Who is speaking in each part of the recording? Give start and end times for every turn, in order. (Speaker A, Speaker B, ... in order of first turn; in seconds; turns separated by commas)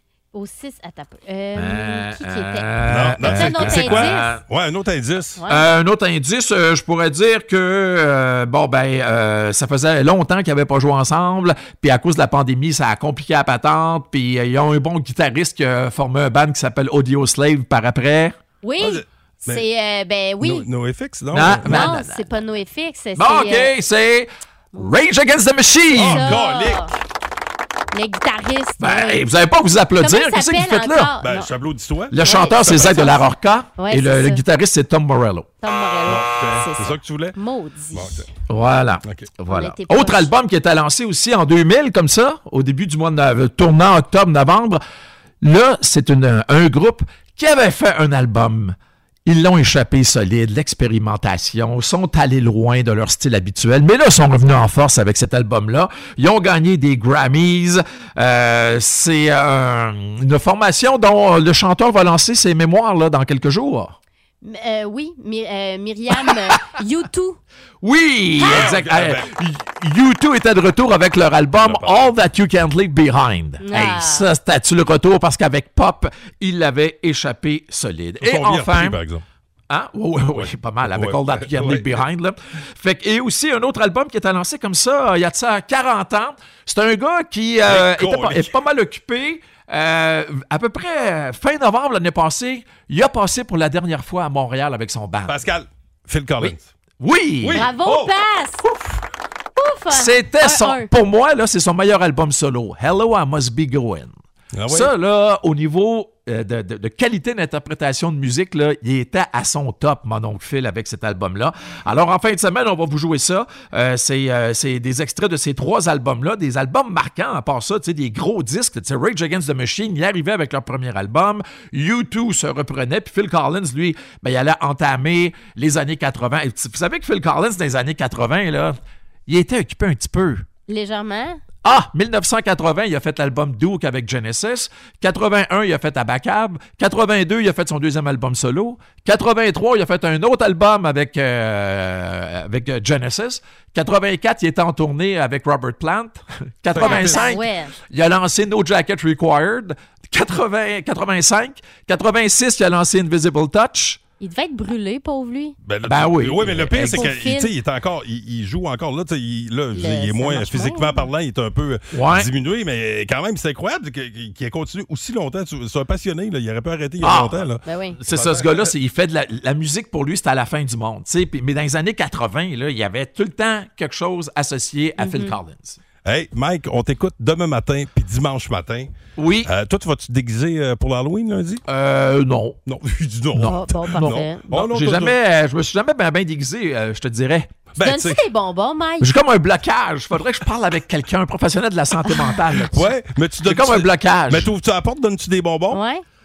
Speaker A: 0.3-2.7, Speaker B: 1.5-4.4, Speaker C: 2.9-5.4, Speaker A: 3.2-4.3, Speaker A: 5.4-5.7, Speaker B: 5.5-18.4, Speaker A: 18.6-20.7, Speaker C: 18.8-19.6, Speaker C: 20.4-21.9, Speaker B: 21.3-22.3, Speaker A: 21.6-23.7, Speaker B: 23.1-26.4, Speaker C: 25.9-26.9, Speaker A: 26.0-26.9, Speaker A: 27.9-29.2, Speaker B: 28.8-31.1, Speaker A: 30.0-31.5, Speaker C: 31.2-33.1, Speaker B: 32.1-35.5, Speaker A: 32.2-33.2, Speaker A: 33.8-34.4, Speaker A: 35.6-38.3, Speaker C: 36.0-37.4, Speaker C: 37.9-38.3, Speaker B: 38.5-44.8, Speaker A: 39.5-40.3, Speaker B: 45.4-64.0, Speaker A: 64.4-67.4, Speaker B: 67.8-79.0, Speaker C: 68.4-69.3, Speaker C: 71.6-72.1, Speaker A: 73.6-74.2, Speaker C: 78.2-79.2, Speaker B: 79.7-95.4, Speaker C: 80.3-82.0, Speaker C: 87.7-88.5, Speaker C: 95.2-96.7, Speaker B: 96.4-97.7, Speaker C: 97.4-98.1, Speaker A: 97.5-98.6, Speaker A: 99.6-100.9, Speaker B: 99.9-104.1, Speaker C: 104.5-104.9, Speaker B: 104.7-130.4, Speaker A: 130.7-131.4, Speaker B: 131.6-154.0, Speaker C: 146.7-147.3, Speaker A: 146.8-147.7, Speaker A: 154.2-155.6, Speaker C: 155.6-168.7, Speaker B: 155.8-157.1, Speaker A: 156.7-157.5, Speaker A: 159.7-161.1, Speaker B: 161.9-162.3, Speaker B: 167.0-167.5, Speaker A: 167.6-168.0, Speaker B: 168.0-175.8, Speaker A: 175.0-175.3, Speaker C: 176.0-178.9, Speaker B: 179.2-179.5, Speaker C: 179.4-181.6, Speaker B: 181.7-182.6, Speaker C: 182.7-185.2, Speaker B: 183.3-187.5, Speaker A: 183.4-184.4, Speaker C: 187.7-188.2, Speaker A: 187.8-189.1, Speaker B: 189.0-192.9, Speaker A: 192.1-192.3, Speaker C: 192.7-195.8, Speaker B: 193.4-194.5, Speaker A: 195.7-196.0